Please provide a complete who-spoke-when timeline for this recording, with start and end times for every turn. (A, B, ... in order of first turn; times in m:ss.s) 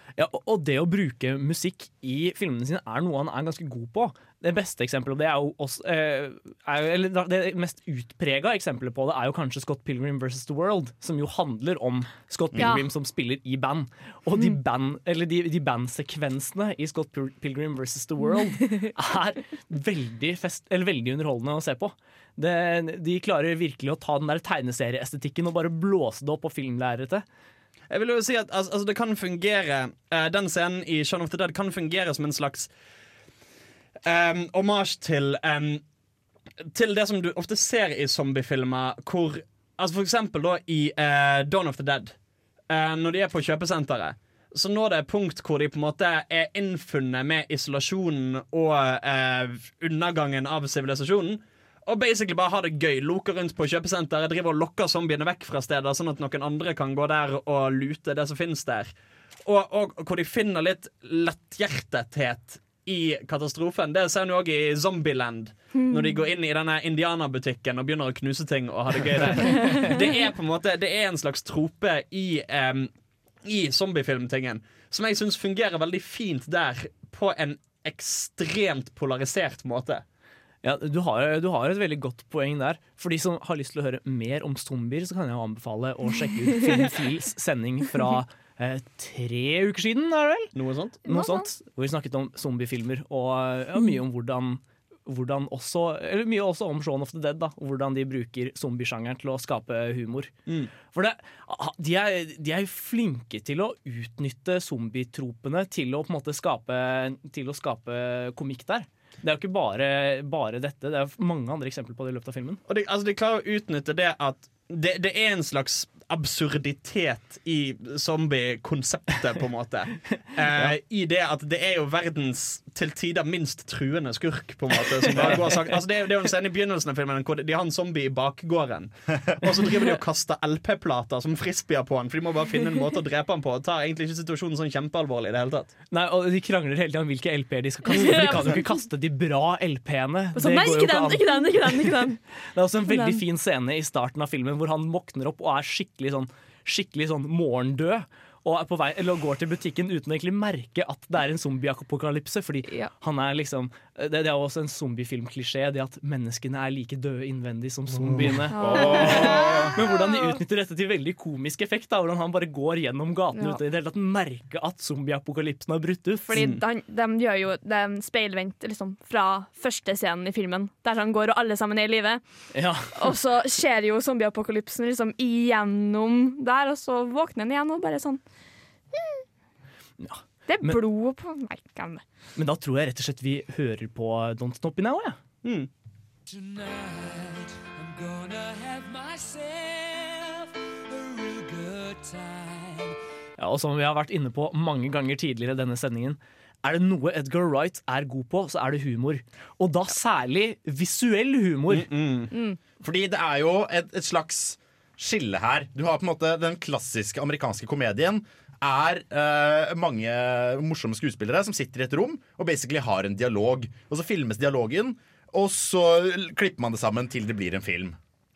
0:00.2-0:27.2 A
0:12.6-0:12.8 B
0:27.9-0:32.7 C
0:34.0-0:35.8 C
0:36.7-0:42.1 C
0:42.7-0:58.9 C
0:59.4-1:12.9 C
1:05.8-1:06.2 B
1:09.5-1:09.8 B
1:13.4-1:20.0 C
1:20.6-1:30.5 A
1:30.5-1:31.0 C
1:31.0-1:40.3 A
1:31.1-1:31.5 B
1:40.5-1:40.7 C
1:40.9-1:52.6 A
1:52.7-2:15.7 C
2:05.2-2:05.6 A
2:15.9-2:21.4 A
2:17.9-2:18.7 B
2:20.3-2:22.2 B
2:22.5-2:46.4 A
2:22.9-2:23.2 B
2:38.5-2:40.4 B
2:38.6-2:39.7 D
2:43.3-2:43.6 B
2:46.3-2:52.2 B
2:46.3-2:46.6 C
2:52.5-2:53.1 A
2:52.9-2:58.2 B
2:58.9-2:59.2 B
3:00.0-3:00.8 A
3:00.5-3:02.0 B
3:02.4-3:05.2 A
3:05.4-3:05.7 C
3:06.3-3:13.0 E
3:13.4-3:21.9 A
3:21.7-3:22.3 C
3:22.3-3:22.6 B
3:22.8-3:38.0 D